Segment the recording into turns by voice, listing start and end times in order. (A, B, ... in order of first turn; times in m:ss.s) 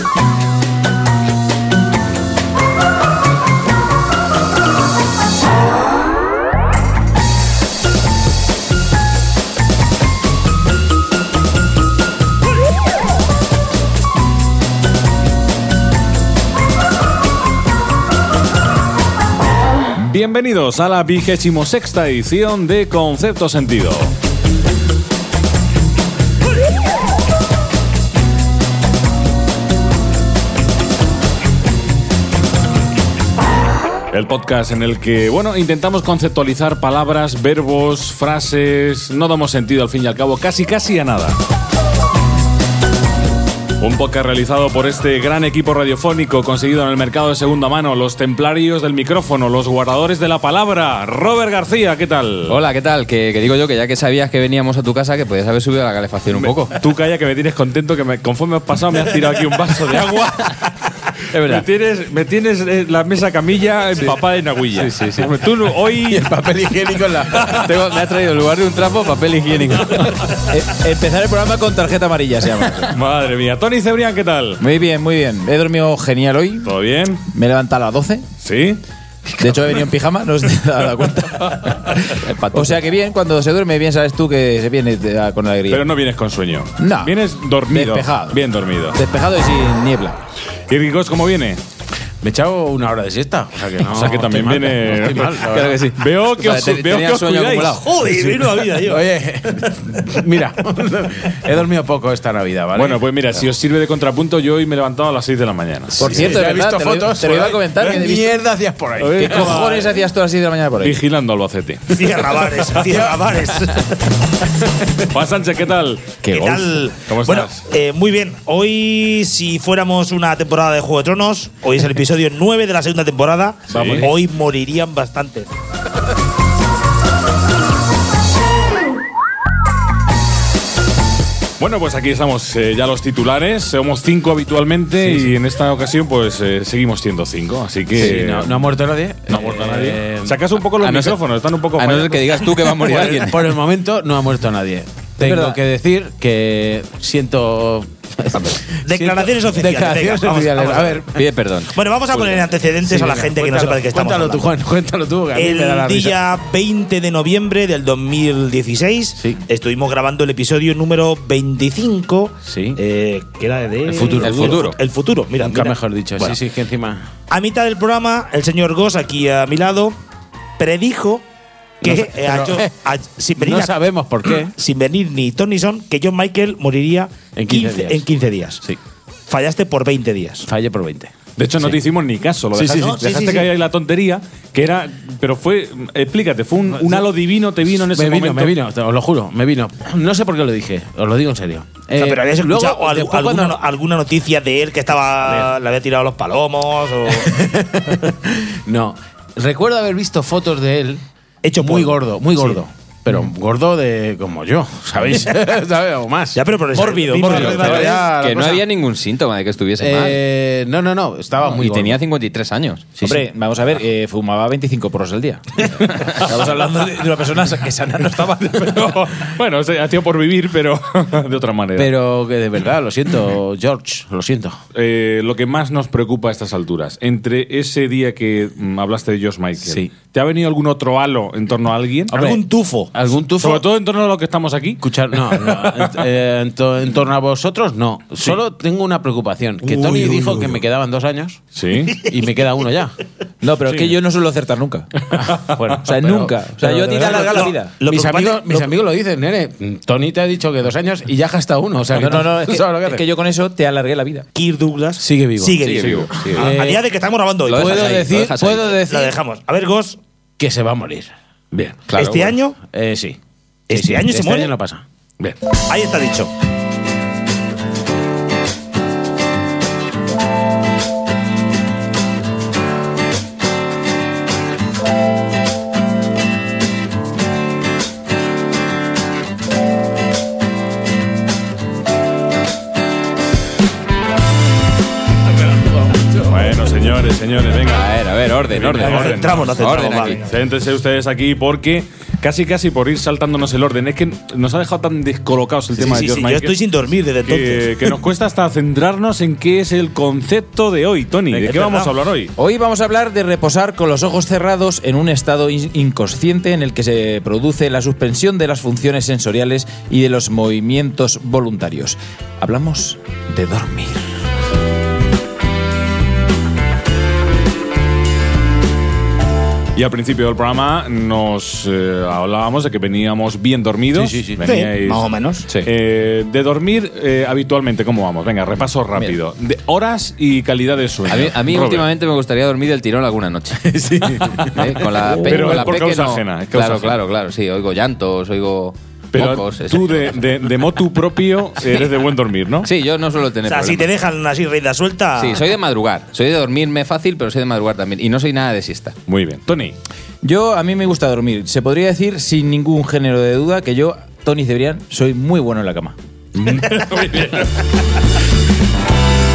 0:20.0-0:24.1 A
0:34.1-0:41.4 A
0:43.8-0:52.6 A
0:52.5-0:56.8 B
0:56.3-1:00.7 A
1:01.3-1:01.6 B
1:01.3-1:06.3 A
1:04.8-1:05.3 B
1:06.1-1:07.7 C
1:07.3-1:07.7 A
1:07.6-1:10.1 B
1:10.4-1:13.0 D
1:12.9-1:14.6 A
1:14.6-1:18.3 D
1:16.6-1:17.2 A
1:18.4-1:18.8 A
1:19.4-1:22.0 D
1:21.4-1:21.7 A
1:22.2-1:22.7 B
1:22.5-1:25.9 D
1:25.7-1:29.0 A
1:26.8-1:28.4 D
1:28.9-1:30.2 D
1:30.7-1:31.6 A
1:32.2-1:35.8 C
1:33.8-1:37.8 A
1:35.5-1:37.9 B
1:37.7-1:39.1 E
1:38.1-1:43.4 C
1:42.8-1:46.3 A
1:46.0-1:49.8 C
1:46.0-1:48.3 D
1:49.0-1:49.9 A
1:49.2-1:51.0 D
1:50.8-1:52.4 A
1:51.9-1:53.9 E
1:52.8-1:53.7 C
1:55.1-1:57.6 A
1:56.2-2:05.5 E
2:03.7-2:04.1 A
2:03.8-2:04.1 C
2:11.6-2:18.7 A
2:15.0-2:15.3 C
2:17.9-2:20.4 C
2:19.3-2:22.5 A
2:20.8-2:21.2 B
2:21.8-2:23.5 B
2:22.8-2:31.1 C
2:25.2-2:25.6 D
2:28.8-2:31.0 E
2:31.1-2:31.7 B
2:31.7-2:34.6 E
2:32.1-2:36.2 C
2:35.3-2:46.4 E
2:42.5-2:42.8 C
2:43.8-2:44.7 C
2:44.2-2:44.7 B
2:45.4-2:47.1 C
2:47.3-2:50.0 E
2:50.6-2:51.2 E
2:51.8-2:58.6 E
2:51.8-2:52.7 C
2:53.4-2:54.5 C
2:57.3-2:58.1 C
2:59.3-3:00.5 E
3:00.5-3:01.8 C
3:01.4-3:08.6 A
3:02.6-3:03.1 C
3:02.7-3:03.5 E
3:06.7-3:07.1 C
3:07.9-3:13.6 C
3:12.0-3:17.4 E
3:15.2-3:15.5 C
3:17.1-3:21.0 C
3:21.4-3:22.6 E
3:21.6-3:28.6 C
3:26.3-3:28.1 E
3:26.8-3:28.1 D
3:28.2-3:30.2 B
3:29.8-3:32.0 C
3:31.4-3:32.9 B
3:33.0-3:33.2 C
3:33.0-3:39.0 D
3:38.6-3:41.9 A
3:41.8-3:44.6 C
3:44.8-3:52.2 A
3:49.6-3:49.9 C
3:52.1-3:53.7 C
3:52.1-3:52.9 E
3:53.4-3:56.0 A
3:54.8-4:01.4 C
3:59.6-4:00.5 E
4:01.6-4:02.0 A
4:02.1-4:02.9 C
4:03.4-4:04.9 D
4:05.2-4:13.0 C
4:05.8-4:07.7 D
4:07.0-4:08.7 E
4:11.9-4:14.3 D
4:14.4-4:20.0 E
4:15.0-4:15.6 C
4:15.6-4:16.6 B
4:16.2-4:16.8 C
4:17.5-4:18.8 B
4:17.5-4:19.1 C
4:20.4-4:21.1 C
4:21.9-4:22.4 B
4:21.9-4:22.6 E
4:22.6-4:23.2 C
4:23.7-4:24.5 E
4:23.7-4:24.8 C
4:25.7-4:26.3 E
4:46.3-4:47.9 A
4:47.7-4:50.2 B
4:48.4-4:49.5 A
4:48.8-4:50.3 E
4:50.2-4:56.6 A
4:55.8-4:57.9 E
4:57.2-5:02.3 A
5:01.3-5:01.9 E
5:02.4-5:14.1 D
5:19.8-5:25.1 A
5:23.9-5:24.4 C
5:24.4-5:25.4 E
5:25.6-5:31.9 A
5:31.1-5:33.7 B
5:33.6-5:35.6 C
5:34.5-5:40.2 B
5:35.2-5:37.0 A
5:39.1-5:42.7 A
5:42.6-5:43.9 B
5:43.4-5:45.5 E
5:45.2-5:49.0 B
5:49.1-5:49.8 A
5:50.2-5:56.0 D
5:56.4-5:57.5 A